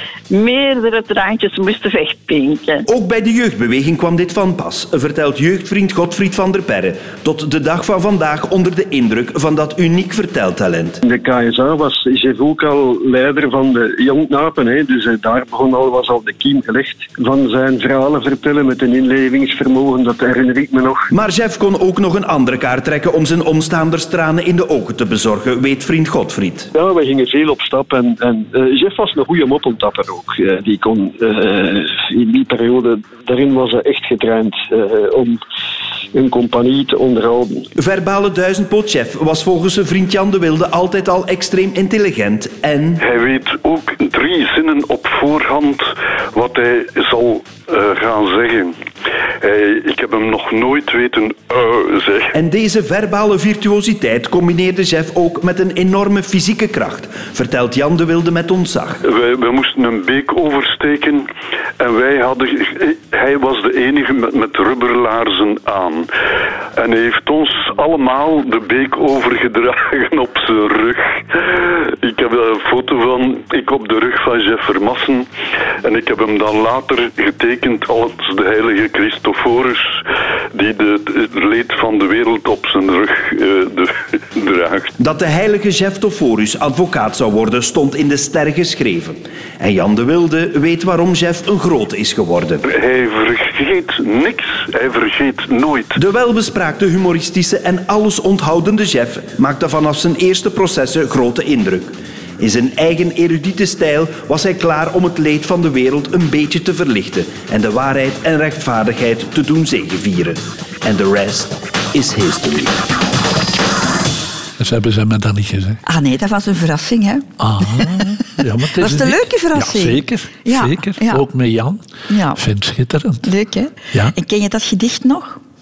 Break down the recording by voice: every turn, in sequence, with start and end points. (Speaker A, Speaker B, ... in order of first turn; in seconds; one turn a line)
Speaker A: 0.3-2.8
Speaker B: 2.9-11.0
Speaker C: 11.0-21.1
Speaker B: 21.1-26.7
Speaker C: 26.7-35.4
Speaker C: 36.1-37.6
Speaker B: 37.8-43.0
Speaker D: 43.0-48.8
Speaker D: 49.4-52.3
Speaker B: 52.3-59.0
Speaker D: 59.0-61.3
Speaker D: 61.8-66.1
Speaker D: 66.8-75.3
Speaker D: 75.8-80.0
Speaker D: 80.5-84.9
Speaker B: 85.0-92.6
Speaker D: 92.7-96.0
Speaker B: 96.0-112.8
Speaker E: 114.6-115.8
Speaker F: 115.8-118.1
Speaker E: 117.4-121.8
Speaker F: 118.8-121.2
Speaker F: 122.1-122.4
Speaker E: 122.3-123.3
Speaker F: 123.2-125.4